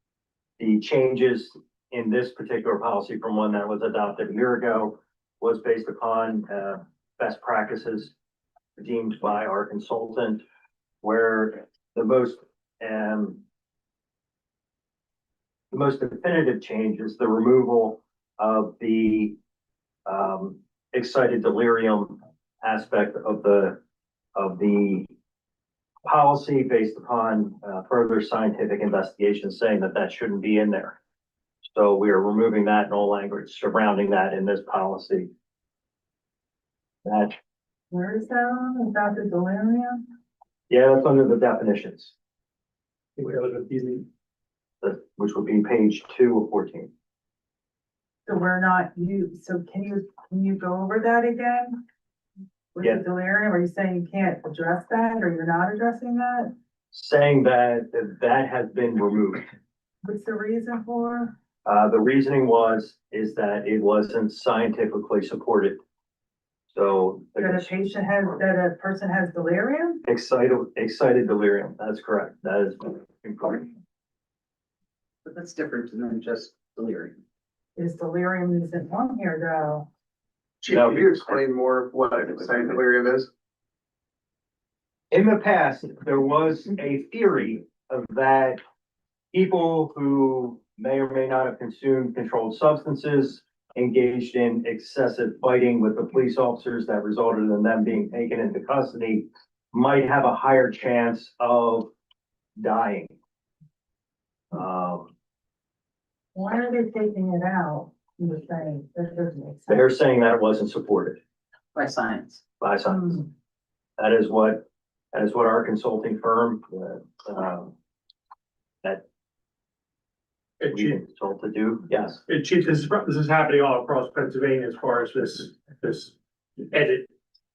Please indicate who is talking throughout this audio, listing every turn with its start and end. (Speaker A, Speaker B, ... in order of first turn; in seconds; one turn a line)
Speaker A: 0.6-8.1
Speaker A: 8.8-10.4
Speaker A: 11.0-13.4
Speaker A: 15.7-19.4
Speaker A: 20.1-23.8
Speaker A: 24.4-25.1
Speaker A: 26.0-31.0
Speaker A: 31.7-35.3
Speaker A: 37.0-37.4
Speaker B: 37.9-40.0
Speaker A: 40.7-42.1
Speaker C: 43.2-44.0
Speaker A: 44.8-46.9
Speaker B: 48.2-51.8
Speaker B: 52.7-56.5
Speaker A: 56.9-59.4
Speaker B: 60.0-61.3
Speaker A: 61.6-65.8
Speaker A: 66.7-67.7
Speaker B: 67.4-70.0
Speaker A: 70.0-73.7
Speaker D: 75.2-77.2
Speaker B: 77.8-79.9
Speaker E: 80.6-83.3
Speaker A: 80.7-81.1
Speaker A: 85.1-88.6
Speaker A: 89.3-101.9
Speaker A: 102.6-103.1
Speaker A: 104.5-105.1
Speaker B: 106.3-109.8
Speaker A: 109.7-111.2
Speaker D: 111.7-112.4
Speaker A: 112.6-113.3
Speaker A: 114.0-117.7
Speaker C: 120.6-121.0
Speaker A: 120.7-122.2
Speaker C: 122.3-126.1
Speaker C: 126.7-127.1